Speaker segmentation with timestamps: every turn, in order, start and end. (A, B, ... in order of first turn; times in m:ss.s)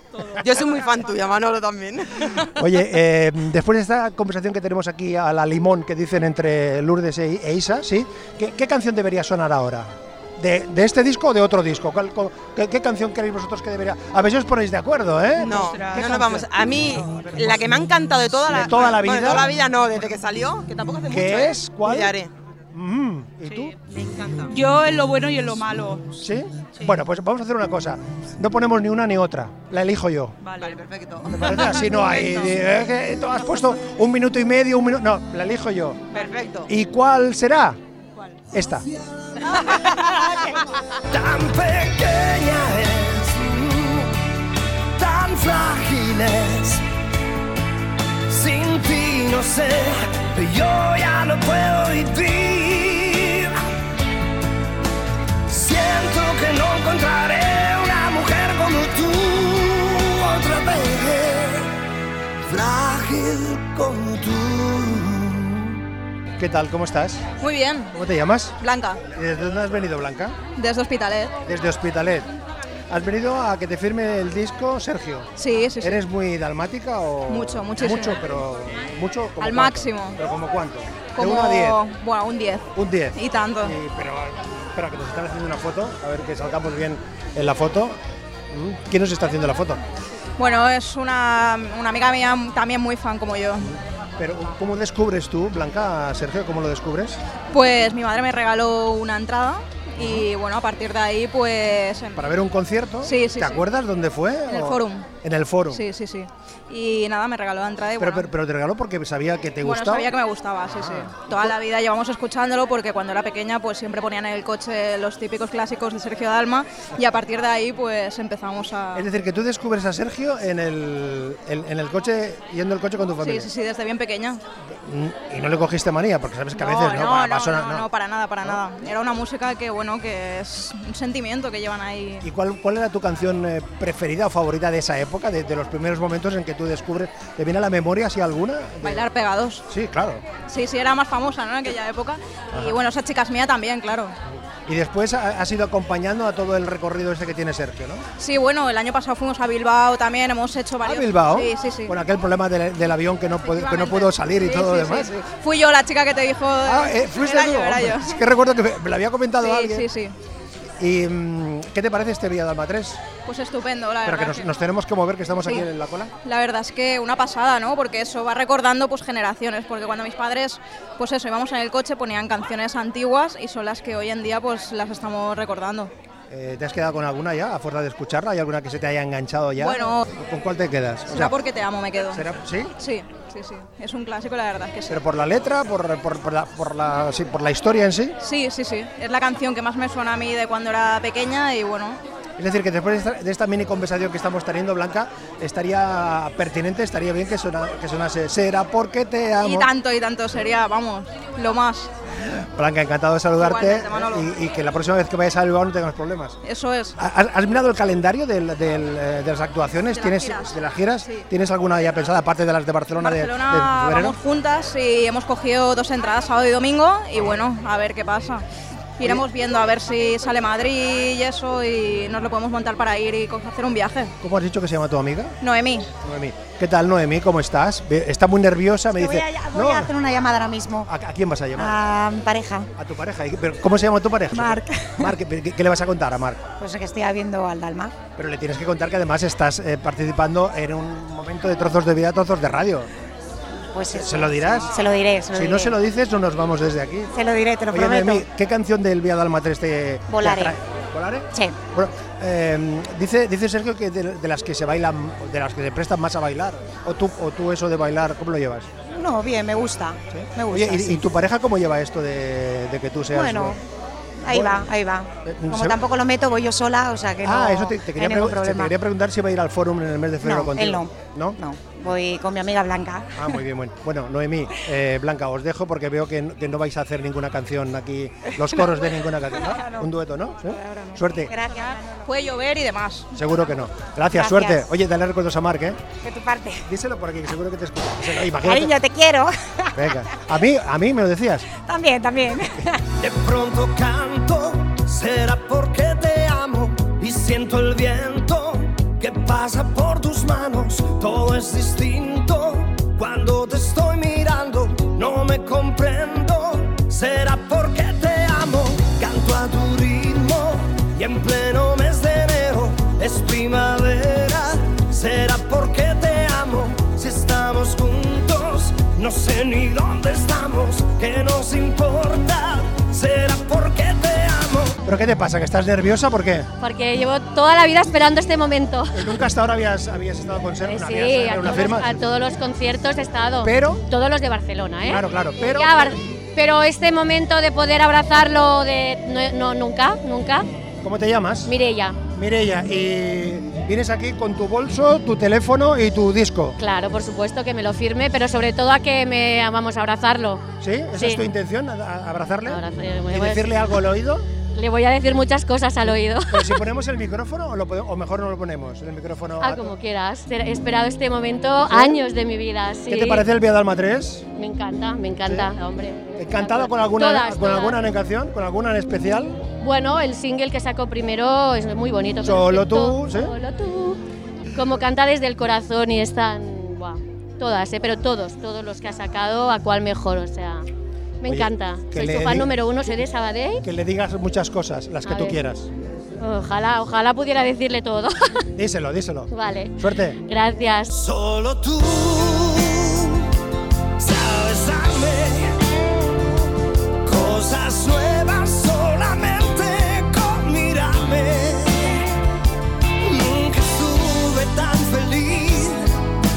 0:00.4-0:02.5 A
0:02.6-0:16.4 B
0:15.4-0:22.3 A
0:15.5-0:16.4 C
0:17.0-0:17.6 B
0:18.5-0:19.5 B
0:21.1-0:22.2 B
0:22.7-0:23.8 B
0:24.4-0:26.1 C
0:26.2-0:30.4 B
0:30.4-0:30.8 C
0:30.6-0:31.6 A
0:31.3-0:36.0 B
0:36.1-0:36.7 A
0:36.7-0:37.8 B
0:38.5-0:38.9 B
0:41.1-0:44.2 D
0:45.0-0:46.8 D
0:48.3-0:53.6 D
0:55.5-1:01.8 D
1:02.5-1:05.8 D
1:06.4-1:07.3 B
1:07.4-1:07.9 E
1:07.9-1:08.6 B
1:08.6-1:09.0 E
1:09.1-1:10.4 B
1:10.6-1:11.4 E
1:11.4-1:12.3 B
1:12.9-1:21.8 B
1:15.4-1:16.0 E
1:17.3-1:18.2 E
1:19.4-1:20.2 E
1:21.2-1:23.8 E
1:22.8-1:28.0 B
1:28.5-1:29.8 B
1:30.4-1:33.7 E
1:33.6-1:37.2 B
1:37.5-1:42.2 E
1:40.0-1:40.3 B
1:42.2-1:45.8 B
1:43.0-1:43.6 E
1:44.5-1:45.1 E
1:45.7-1:48.3 E
1:48.0-1:50.1 B
1:49.6-1:59.1 E
1:50.7-1:51.5 B
1:59.0-2:03.5 B
2:03.2-2:04.4 E
2:04.8-2:07.9 B
2:06.6-2:12.3 E
2:12.2-2:19.1 B
2:18.8-2:19.6 E
2:19.7-2:20.2 B
2:20.5-2:24.1 E
2:24.7-2:28.0 B
2:28.2-2:32.0 E
2:30.8-2:35.2 B
2:33.4-2:38.2 E
2:36.6-2:39.9 B
2:39.4-2:40.1 E
2:40.8-2:43.0 B
2:43.2-2:44.5 E
2:44.0-2:46.1 B
2:46.2-2:55.9 E
2:56.3-3:01.4 B
2:59.6-3:00.1 E
3:01.1-3:02.2 E
3:02.1-3:02.7 B
3:02.8-3:05.0 E
3:04.9-3:08.2 B
3:08.2-3:12.0 E
3:12.4-3:19.7 B
3:19.4-3:21.9 E
3:22.3-3:26.4 B
3:23.4-3:24.3 E
3:26.4-3:27.0 E
3:27.0-3:34.2 B
3:29.9-3:31.2 E
3:33.0-3:38.4 E
3:39.0-3:44.1 E
3:44.2-3:45.4 B
3:45.4-3:45.9 E
3:46.0-3:49.9 B
3:48.9-3:50.9 F
3:50.9-3:51.8 B
3:51.6-3:52.7 F
3:52.8-3:56.5 B
3:54.3-3:55.1 F
3:56.6-3:58.0 F
3:58.2-4:02.9 B
4:03.7-4:05.8 F
4:03.9-4:04.8 B
4:05.3-4:07.1 B
4:07.1-4:08.2 F
4:07.7-4:18.7 B
4:10.1-4:10.6 F
4:18.9-4:21.1 F
4:20.1-4:23.6 B
4:23.1-4:23.6 F
4:24.2-4:28.7 F
4:24.3-4:24.7 B
4:25.2-4:25.8 B
4:27.2-4:31.4 B
4:30.2-4:33.3 F
4:33.2-4:41.3 B
4:39.6-4:39.9 F
4:40.5-4:41.8 F
4:42.0-4:43.1 E
4:43.1-4:45.8 B
4:44.1-4:44.6 F
4:46.0-4:46.7 F
4:46.7-4:48.7 B
4:48.2-4:50.0 F
4:49.8-4:51.5 B
4:51.6-4:52.8 F
4:53.0-5:24.8 D
5:24.8-5:26.5 B
5:26.6-5:29.2 G
5:28.9-5:32.0 B
5:30.7-5:40.5 G
5:33.4-5:33.8 B
5:34.9-5:36.0 B
5:40.8-5:41.5 B
5:41.5-5:42.0 G
5:42.1-5:46.6 B
5:46.6-5:50.4 G
5:50.6-5:54.3 B
5:51.0-5:51.2 G
5:52.5-5:53.5 G
5:54.6-5:56.6 G
5:56.3-5:59.7 B
5:59.4-6:03.3 G
6:01.7-6:02.0 B
6:02.9-6:04.3 B
6:04.4-6:07.8 G
6:05.3-6:05.5 B
6:06.2-6:09.5 B
6:09.6-6:14.0 G
6:12.2-6:13.3 B
6:14.6-6:20.7 G
6:21.2-6:23.6 G
6:21.3-6:22.5 B
6:23.6-6:25.7 B
6:25.0-6:25.4 G
6:26.2-6:28.3 G
6:28.6-6:30.2 B
6:29.3-6:30.9 G
6:30.9-6:33.3 D
6:34.0-6:35.7 D
6:37.0-6:42.1 D
6:43.0-6:46.0 D